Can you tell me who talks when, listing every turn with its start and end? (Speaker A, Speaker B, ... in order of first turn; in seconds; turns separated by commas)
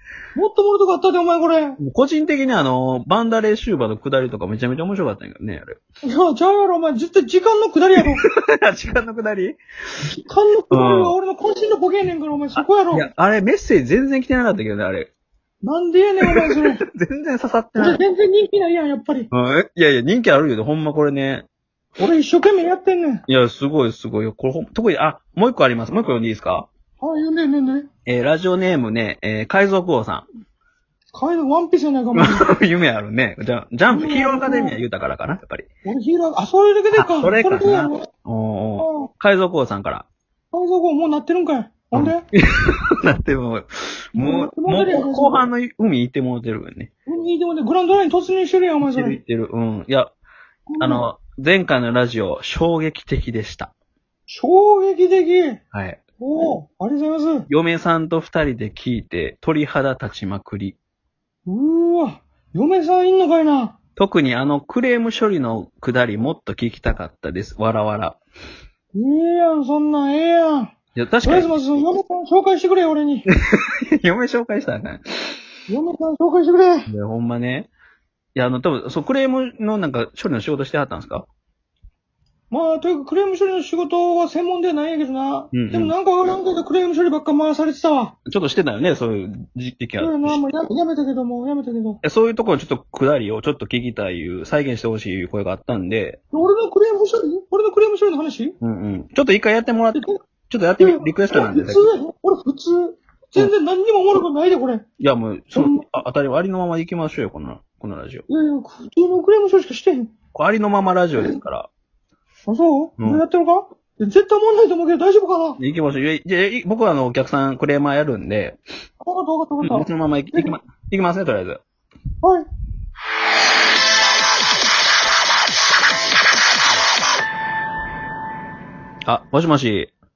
Speaker A: 0.3-1.8, Speaker B: 1.8-5.8, Speaker A: 6.0-8.2, Speaker B: 8.1-9.6, Speaker A: 10.1-13.1, Speaker B: 10.7-11.2, Speaker B: 12.6-15.1, Speaker A: 15.6-16.8, Speaker B: 16.3-18.0, Speaker A: 17.8-19.3, Speaker B: 19.3-21.4, Speaker A: 22.0-23.2, Speaker B: 23.3-26.7, Speaker A: 27.0-27.9, Speaker B: 28.1-30.3, Speaker A: 31.1-32.5, Speaker B: 32.1-35.7, Speaker A: 33.9-34.8, Speaker A: 35.9-38.1, Speaker B: 36.9-40.1, Speaker A: 38.8-39.1, Speaker A: 40.5-42.2, Speaker B: 41.9-46.9, Speaker A: 44.1-45.4, Speaker A: 47.1-49.2, Speaker B: 48.8-50.1, Speaker A: 50.7-51.1, Speaker B: 50.8-53.7, Speaker A: 54.3-55.6, Speaker B: 55.7-56.0, Speaker A: 56.2-57.5, Speaker B: 57.5-60.8, Speaker A: 61.5-63.8, Speaker B: 64.0-68.2, Speaker A: 68.9-73.3, Speaker B: 71.0-71.5, Speaker B: 73.5-75.4, Speaker A: 75.7-76.9, Speaker B: 76.9-77.7, Speaker B: 78.3-81.3, Speaker A: 82.5-88.2, Speaker B: 85.5-85.9, Speaker B: 88.3-90.4, Speaker A: 90.0-92.0, Speaker B: 92.0-96.2, Speaker A: 96.3-98.6, Speaker B: 98.6-101.9, Speaker A: 100.8-104.8, Speaker B: 105.0-108.3, Speaker A: 105.5-105.9, Speaker A: 108.3-110.1, Speaker B: 110.3-111.7, Speaker A: 112.5-115.6, Speaker B: 115.6-118.6, Speaker A: 119.0-120.6, Speaker B: 119.6-121.6, Speaker A: 122.2-122.5, Speaker B: 129.1-129.9